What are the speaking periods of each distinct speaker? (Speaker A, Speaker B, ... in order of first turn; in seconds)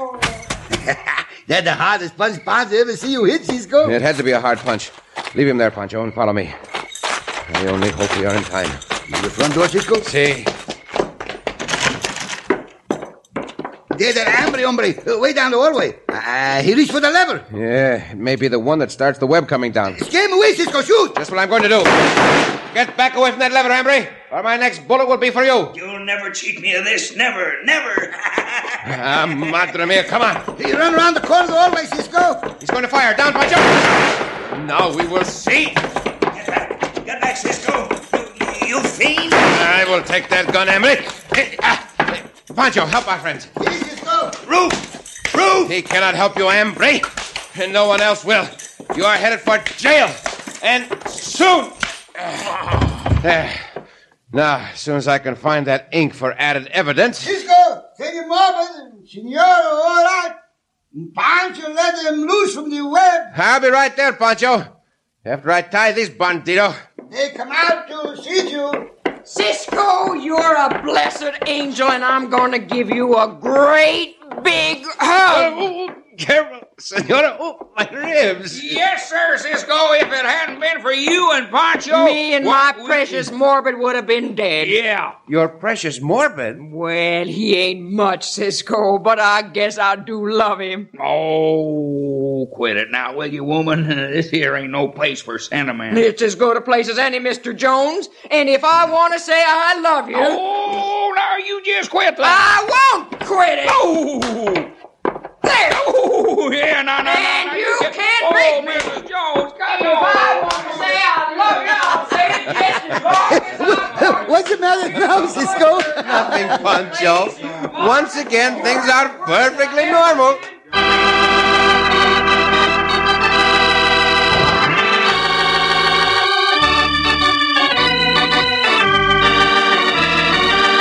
Speaker A: 0.7-4.0, 9.1-10.1, 13.9-17.5, 19.9-21.1, 30.6-32.5, 43.6-44.4, 57.2-60.4, 60.9-63.3, 67.1-68.9, 113.3-116.6
Speaker B: 3.8-6.5, 7.5-8.8, 10.0-10.5, 17.5-20.0, 21.1-22.1, 22.7-25.7, 28.9-30.5, 32.6-35.9, 39.5-43.5, 45.6-52.4, 53.1-53.6, 54.3-57.3, 63.3-64.7, 65.2-66.8, 75.3-78.8, 85.3-86.6, 115.9-120.4
Speaker C: 25.7-28.8, 36.3-39.5, 44.5-45.7
Speaker D: 69.3-75.7, 81.9-84.8, 86.6-90.9, 95.9-100.5, 102.2-103.9, 105.5-105.9, 107.0-109.0, 109.7-115.9, 116.9-117.6
Speaker E: 78.5-83.3, 84.6-85.2, 91.0-96.0, 100.1-102.4, 103.7-104.7, 105.8-110.9, 111.6-112.5